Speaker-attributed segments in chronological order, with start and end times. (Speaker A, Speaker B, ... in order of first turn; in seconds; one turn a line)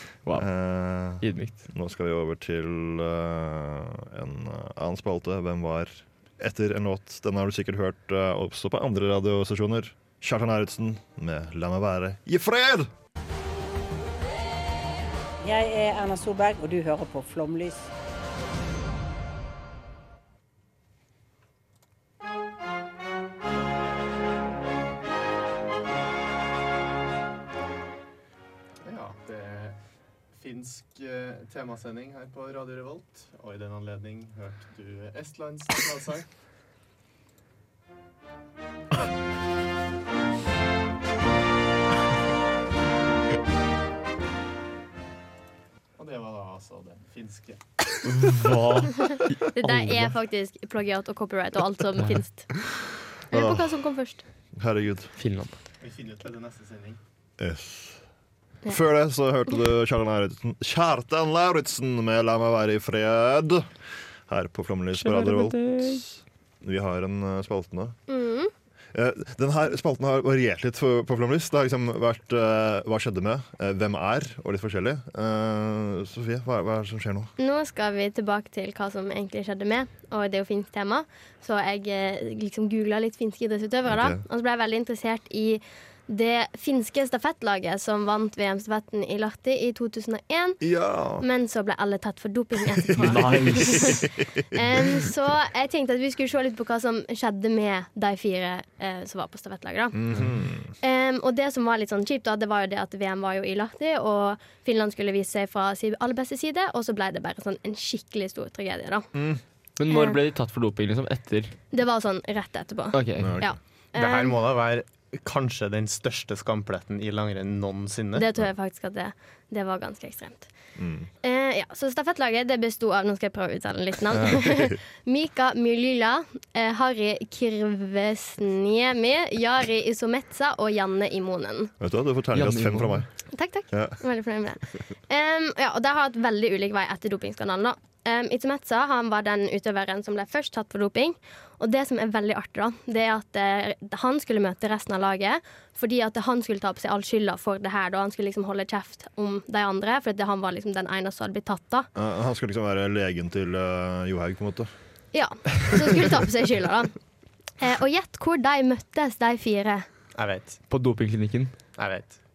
Speaker A: 0.3-12.9
Speaker B: 1.1-1.6
Speaker C: 15.4-17.9
Speaker D: 28.8-29.8
Speaker D: 30.3-36.2
Speaker D: 46.0-47.6
Speaker B: 48.0-49.1
Speaker E: 49.1-52.5
Speaker B: 49.6-50.1
Speaker E: 53.3-54.2
Speaker A: 53.3-53.8
Speaker A: 54.6-55.1
Speaker B: 55.2-55.5
Speaker D: 55.8-57.0
Speaker A: 57.4-58.0
Speaker A: 58.7-63.7
Speaker A: 64.3-68.0
Speaker B: 65.0-66.0
Speaker E: 68.1-68.5
Speaker A: 68.9-77.3
Speaker E: 77.4-100.0
Speaker A: 83.8-84.2
Speaker A: 90.6-91.2
Speaker A: 92.9-94.0
Speaker B: 93.0-93.9
Speaker A: 99.9-100.7
Speaker E: 100.8-109.1
Speaker A: 109.1-109.4
Speaker B: 109.8-111.5
Speaker E: 109.9-110.2
Speaker E: 111.7-114.4
Speaker B: 112.9-113.4
Speaker A: 113.2-113.5
Speaker D: 113.9-118.2
Speaker E: 118.2-120.5
Speaker A: 120.8-121.1
Speaker E: 121.2-131.7
Speaker A: 131.8-133.1
Speaker B: 132.3-133.0
Speaker E: 133.3-151.9
Speaker A: 133.7-134.0
Speaker A: 151.9-154.7
Speaker E: 155.1-156.9
Speaker E: 157.6-159.9
Speaker D: 160.2-160.6
Speaker B: 160.7-161.5
Speaker D: 161.8-162.2